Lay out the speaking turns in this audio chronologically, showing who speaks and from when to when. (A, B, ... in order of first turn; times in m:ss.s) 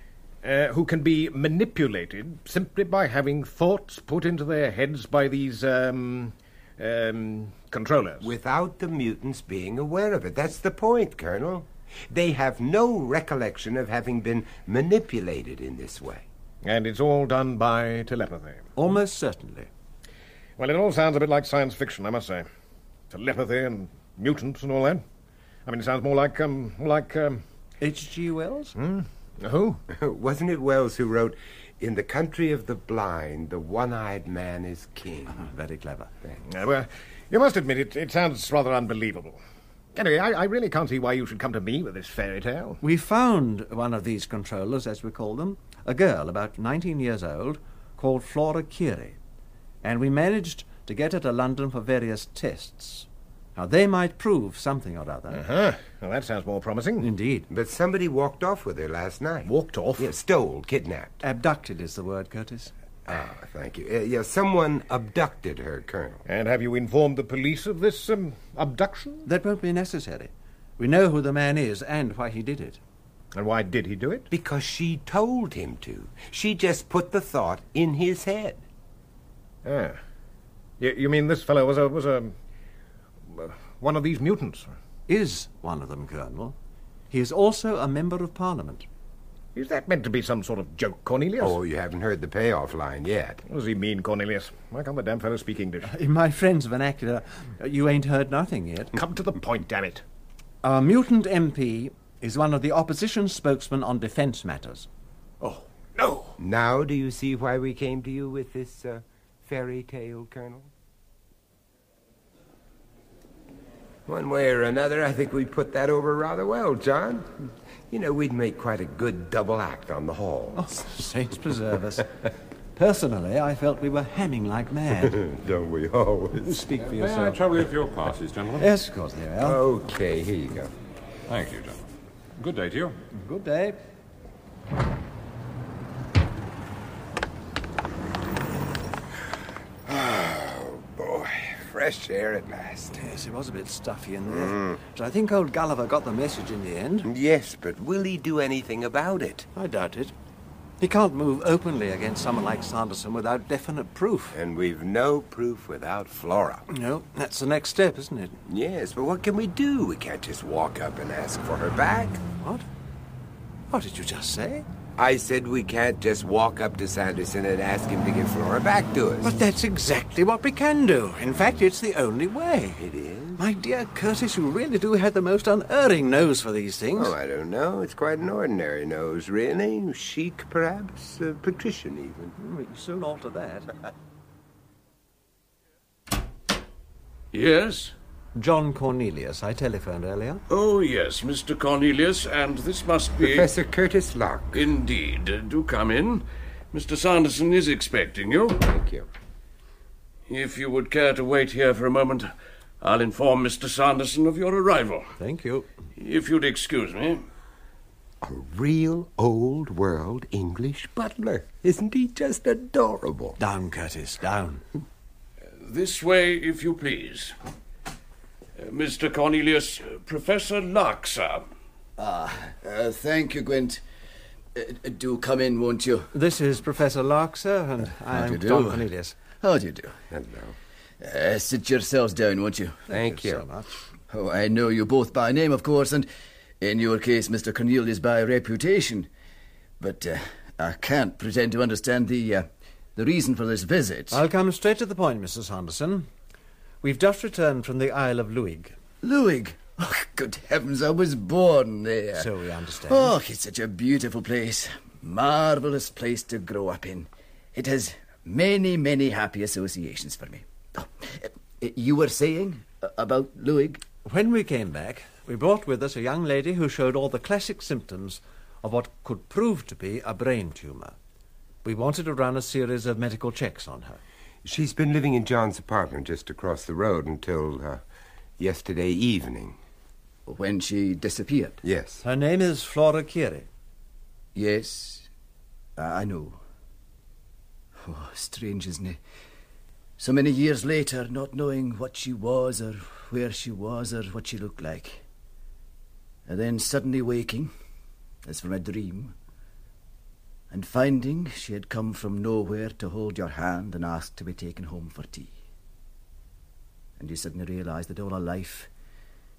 0:00.4-0:08.3 A
0:08.2-0:16.2 B
0:16.6-0:18.7 A
0:18.8-0:19.7 C
0:20.6-0:22.5 A
0:23.1-0:25.0 A
0:25.6-0:27.4 A
0:27.8-0:28.8 C
0:28.8-0:29.8 A
0:29.9-0:35.4 B
0:35.3-0:36.1 C
0:36.5-0:39.4 A
0:39.9-0:42.8 A
0:42.8-0:49.2 C
0:49.8-0:55.4 C
0:55.3-0:57.1 A
0:57.0-0:57.5 C
0:57.5-1:01.2 B
0:59.4-1:00.1 A
1:01.2-1:02.7 C
1:03.1-1:06.2 B
1:06.2-1:09.2 A
1:09.2-1:12.8 C
1:13.3-1:14.3 A
1:14.3-1:18.6 B
1:19.6-1:20.0 A
1:20.8-1:22.3 A
1:23.3-1:24.7 A
1:25.1-1:26.6 C
1:27.1-1:28.8 C
1:29.5-1:31.6 A
1:31.4-1:33.4 B
1:33.5-1:35.9 A
1:35.8-1:38.9 C
1:38.9-1:40.0 A
1:40.6-1:44.9 C
1:45.4-1:46.4 A
1:46.4-1:50.7 B
1:54.1-1:57.3 B
1:57.9-2:00.7 B
2:00.6-2:02.1 C
2:02.7-2:05.2 C
2:05.0-2:06.6 B
2:06.4-2:07.4 C
2:06.8-2:08.7 D
2:08.6-2:09.6 C
2:09.4-2:10.7 B
2:11.3-2:11.8 D
2:12.4-2:13.0 D
2:13.1-2:13.8 C
2:19.8-2:23.0 B
2:22.9-2:27.1 C
2:24.3-2:24.8 B
2:27.0-2:29.5 B
2:29.5-2:30.1 C
2:30.8-2:34.3 C
2:34.3-2:36.6 B
2:36.7-2:38.4 C
2:38.4-2:42.2 B
2:42.4-2:42.6 C
2:43.7-2:44.6 C
2:45.0-2:49.3 B
2:49.2-2:52.8 C
2:52.8-2:53.4 B
2:53.4-2:57.1 C
2:56.9-3:02.3 B
3:02.4-3:03.7 C
3:07.3-3:07.9 E
3:08.4-3:10.4 C
3:10.5-3:13.5 E
3:13.2-3:14.6 B
3:14.5-3:18.6 E
3:18.6-3:19.1 B
3:20.3-3:25.1 E
3:25.2-3:25.7 C
3:26.0-3:27.2 E
3:28.2-3:33.4 B
3:33.4-3:34.6 C
3:35.6-3:37.4 E
3:38.6-3:41.5 E
3:42.0-3:43.8 F
3:44.5-3:46.1 F
3:46.1-3:49.2 C
3:48.0-3:48.9 F
3:49.4-3:50.0 F
3:50.1-3:50.6 B
3:51.0-3:52.8 F
3:52.9-3:53.8 C
3:52.9-3:53.4 B
3:54.1-3:56.1 F
3:56.6-3:59.1 F
3:59.8-4:04.2 F
4:04.1-4:06.1 C
4:06.8-4:08.8 C
4:09.0-4:12.3 F
4:12.1-4:13.1 C
4:12.9-4:23.8 F
4:24.0-4:31.0 C
4:31.6-4:34.0 C
4:34.4-4:37.8 B
4:38.4-4:39.6 B
4:40.2-4:41.6 F
4:41.6-4:42.0 B
4:42.0-4:43.5 C
4:44.3-4:45.1 F
4:45.8-4:46.4 F
4:47.8-4:49.0 F
4:50.0-4:55.0 F
4:56.2-4:57.5 F
4:58.2-4:59.1 F
5:00.5-5:05.3 F
5:07.0-5:08.7 F